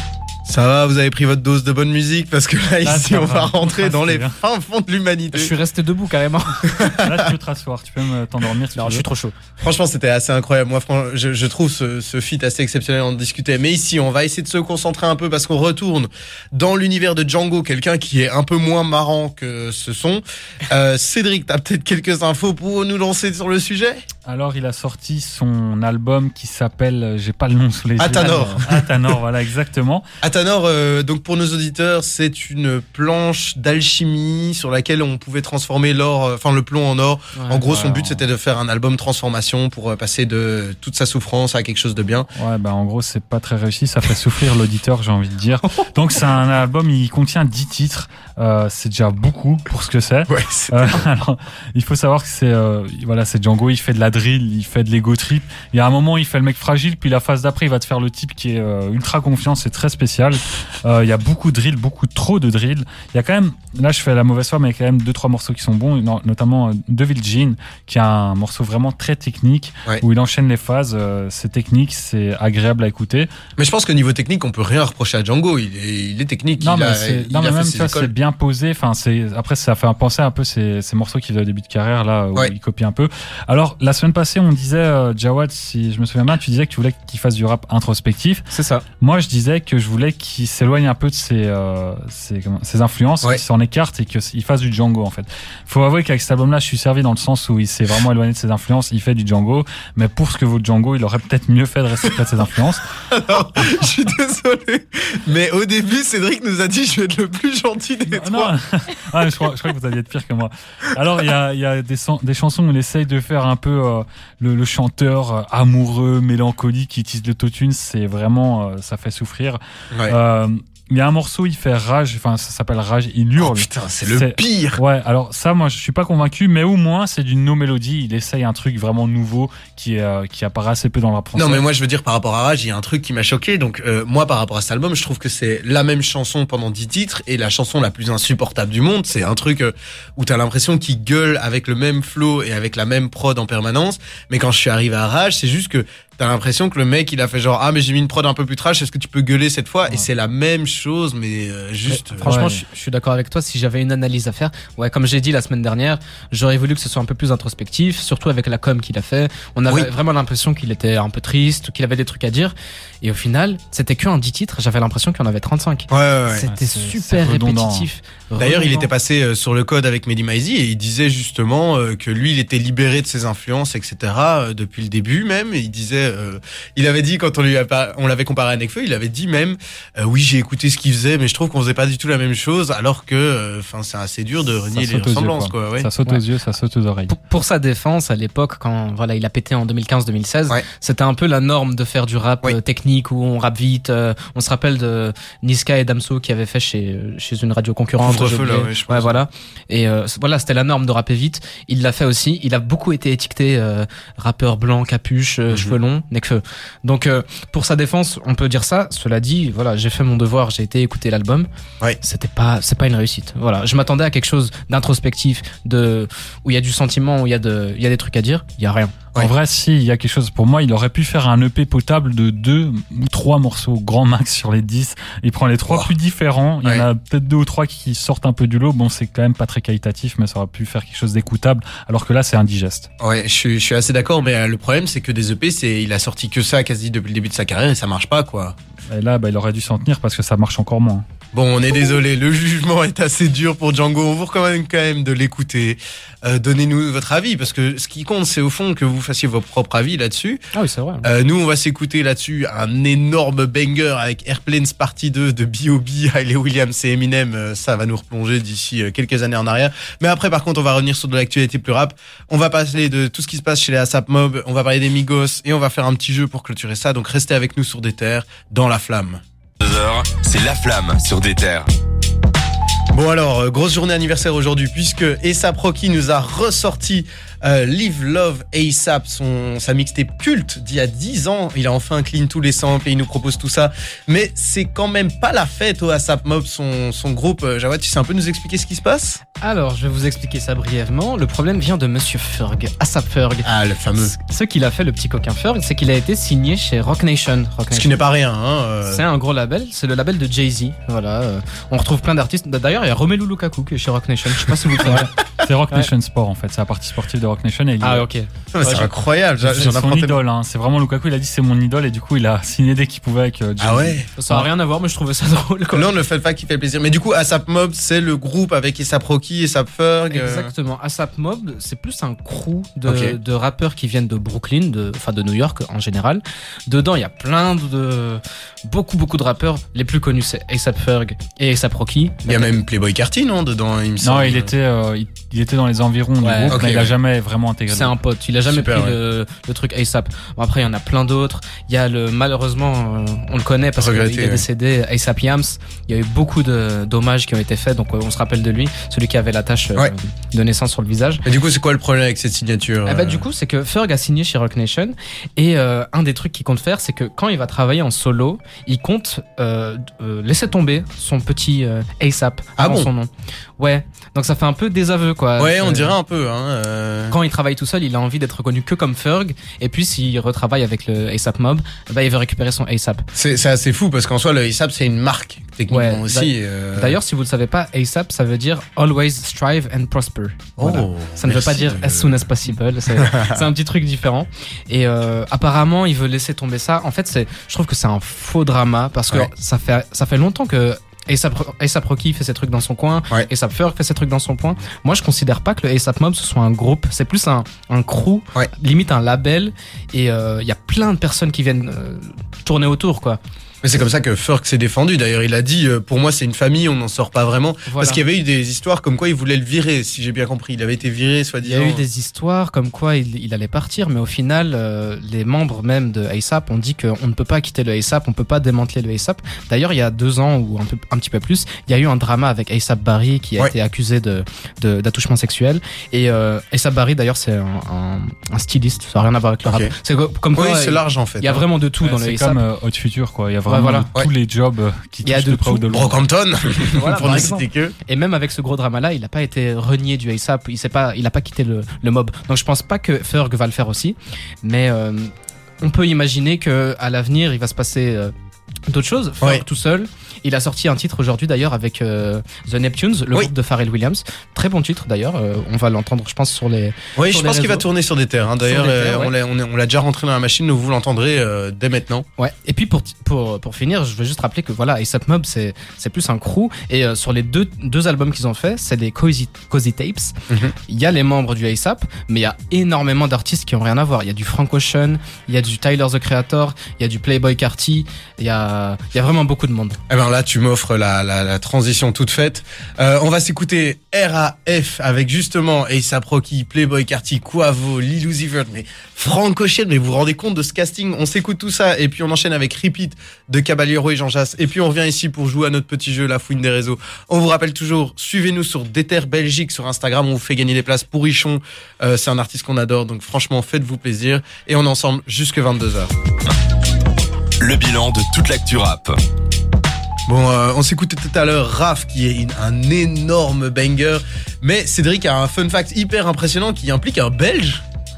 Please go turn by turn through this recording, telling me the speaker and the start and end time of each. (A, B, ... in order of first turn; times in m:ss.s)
0:00.5-0:05.5 A
0:02.8-0:04.4 B
0:05.3-0:06.9 C
0:06.8-0:07.2 A
0:06.9-0:09.0 B
0:08.8-0:09.3 C
0:09.6-0:24.0 A
0:24.2-0:30.0 B
0:28.0-0:28.9 A
0:30.2-0:42.3 A
0:37.4-0:37.6 C
0:37.6-0:38.2 B
0:42.4-1:13.3 B
0:50.3-0:51.0 A
1:13.6-1:18.1 A
1:16.6-1:28.4 B
1:28.5-1:28.8 C
1:29.0-1:42.8 B
1:43.1-1:48.5 A
1:48.1-2:11.6 B
2:03.4-2:04.8 A
2:11.4-2:32.3 A
2:31.8-2:48.9 C
2:32.2-2:32.6 B
2:45.9-2:46.5 A
2:46.4-2:47.9 B
2:48.4-3:05.9 A
3:04.5-3:07.1 B
3:07.1-3:31.5 C
3:18.0-3:19.2 A
3:25.5-3:25.8 A
3:32.0-3:39.1 C
3:39.2-3:52.9 B
3:45.7-3:45.9 A
3:53.0-3:58.6 A
3:58.9-4:01.0 B
4:01.3-4:10.4 A
4:10.5-4:11.1 C
4:11.0-4:29.2 A
4:29.6-4:31.7 D
4:32.9-4:49.2 A
4:49.4-4:58.0 C
4:53.4-4:54.1 A
4:57.7-4:59.0 A
4:58.9-5:05.1 C
5:04.8-5:08.1 B
5:07.8-5:08.9 C
5:08.5-5:10.2 A
5:09.4-5:14.5 B
5:13.6-5:14.1 A
5:14.2-5:16.0 C
5:15.7-5:20.5 A
5:20.1-5:32.6 C
5:22.8-5:23.2 A
5:32.3-5:34.5 A
5:34.0-5:38.0 B
5:36.2-5:36.6 C
5:36.5-5:36.9 A
5:37.7-5:51.2 C
5:38.5-5:39.0 A
5:43.8-5:44.4 A
5:51.2-5:53.3 A
5:52.8-6:06.0 C
6:02.6-6:02.9 A
6:05.4-6:07.2 A
6:07.1-6:13.0 C
6:13.2-6:17.0 A
6:15.7-6:43.2 C
6:20.6-6:22.2 A
6:22.9-6:23.4 A
6:43.6-6:51.8 A
6:47.7-6:48.0 C
6:51.4-7:12.4 C
7:09.4-7:09.7 A
7:10.3-7:11.5 A
7:11.8-7:16.0 B
7:13.5-7:13.9 C
7:15.0-7:15.7 C
7:15.7-7:17.7 A
7:16.8-7:28.1 C
7:17.0-7:17.3 B
7:28.7-7:37.7 C
7:37.0-7:42.0 A
7:38.4-7:39.1 C
7:42.2-7:50.1 C
7:50.7-7:59.8 C
7:59.9-8:25.9 A
8:27.4-8:29.0 D
8:30.1-8:37.6 A